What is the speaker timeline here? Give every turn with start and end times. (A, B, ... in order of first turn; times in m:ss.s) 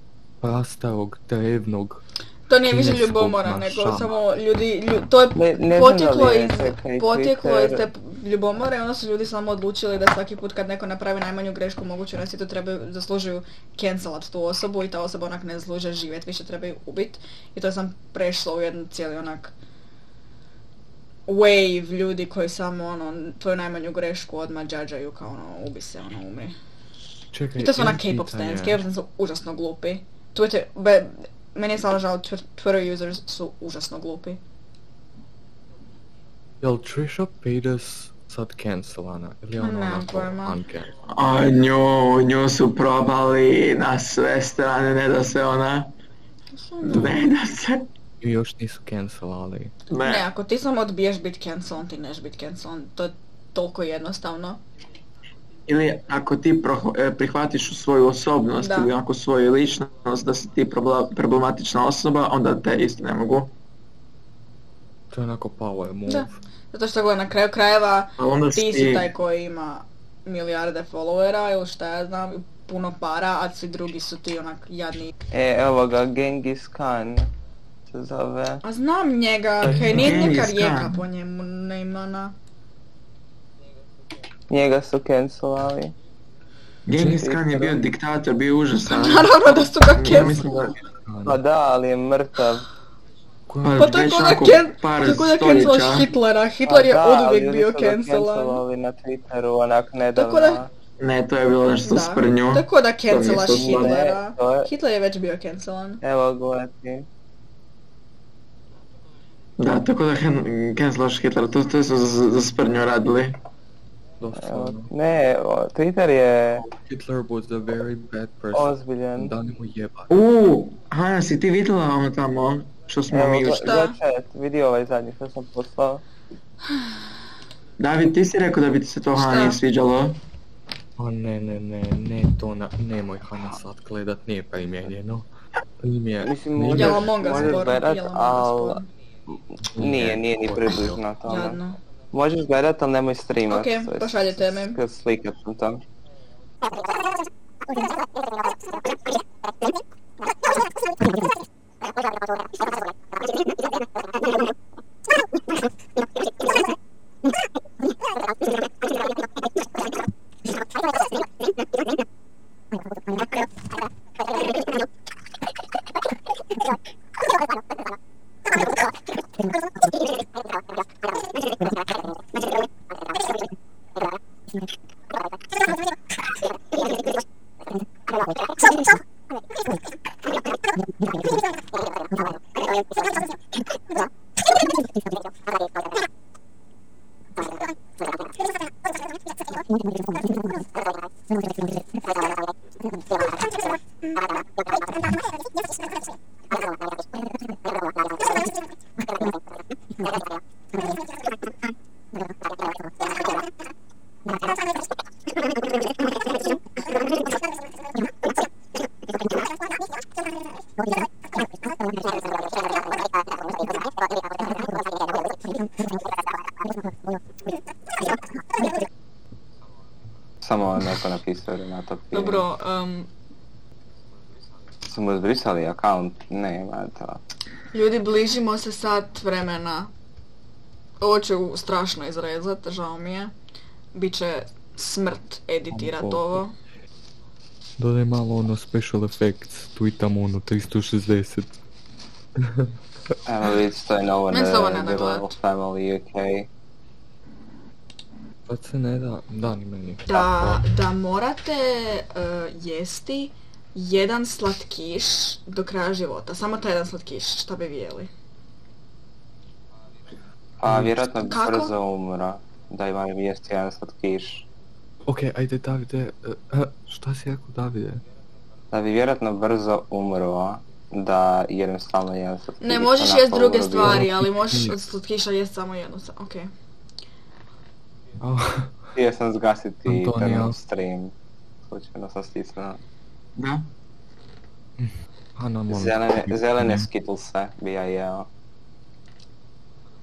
0:00.4-0:02.0 A
0:02.5-0:19.5 B
0:02.6-0:04.1 A
0:05.3-0:07.8 C
0:21.3-0:26.6 B
0:27.3-0:28.8 A
0:27.6-0:34.4 B
0:36.6-0:40.9 A
0:39.6-0:40.6 B
0:41.1-0:45.9 D
0:46.6-0:47.2 B
0:46.8-0:47.9 D
0:48.2-0:49.7 A
0:49.9-0:50.2 D
0:50.0-0:54.6 B
0:55.7-1:03.5 D
0:58.6-0:58.9 B
1:05.1-1:06.4 A
1:06.1-1:15.1 B
1:08.2-1:09.1 D
1:15.3-1:17.3 C
1:17.9-1:18.6 C
1:18.6-1:22.3 B
1:19.6-1:20.2 A
1:19.7-1:21.1 D
1:24.5-1:25.9 C
1:26.8-1:30.8 D
1:26.9-1:27.2 A
1:27.0-1:27.8 C
1:28.8-1:30.5 B
1:30.1-1:31.4 A
1:31.2-1:32.7 C
1:33.5-1:34.4 A
1:33.6-1:36.1 D
1:33.8-1:38.6 B
1:36.6-1:40.7 C
1:40.2-1:40.6 B
1:41.0-1:44.0 D
1:41.8-1:46.0 B
1:43.5-1:44.7 C
1:46.0-1:47.1 C
1:49.6-1:53.4 D
1:54.2-1:54.9 A
1:54.4-1:56.6 C
1:56.6-2:00.2 A
1:58.5-1:59.3 C
2:00.1-2:03.8 D
2:03.1-2:06.0 C
2:03.5-2:04.0 B
2:07.8-2:10.2 D
2:09.1-2:09.6 B
2:11.0-2:15.3 A
2:15.8-2:17.7 A
2:16.2-2:21.6 C
2:16.7-2:18.8 B
2:19.7-2:21.0 A
2:21.3-2:21.8 B
2:22.1-2:25.8 C
2:23.5-2:24.8 B
3:40.4-3:42.5 C
3:42.1-3:43.1 B
3:44.8-3:47.2 C
3:47.7-3:49.9 B
3:51.0-3:53.3 B
3:53.9-3:56.5 B
3:55.7-3:56.4 A
3:57.8-4:01.5 A
4:02.4-4:02.7 A
4:03.2-4:06.5 C
4:04.3-4:05.3 B
4:08.4-4:10.6 A
4:10.1-4:18.1 B
4:20.6-4:24.5 C
4:20.6-4:21.0 A
4:21.2-4:21.8 B
4:25.0-4:28.0 A
4:28.7-4:34.1 C
4:32.6-4:36.5 B
4:33.8-4:34.7 A
4:38.2-4:38.9 A
4:38.9-4:41.1 C
4:39.9-4:40.6 A
4:41.7-4:42.8 C
4:43.4-4:43.7 D
4:44.8-4:46.9 A
4:45.7-4:48.3 C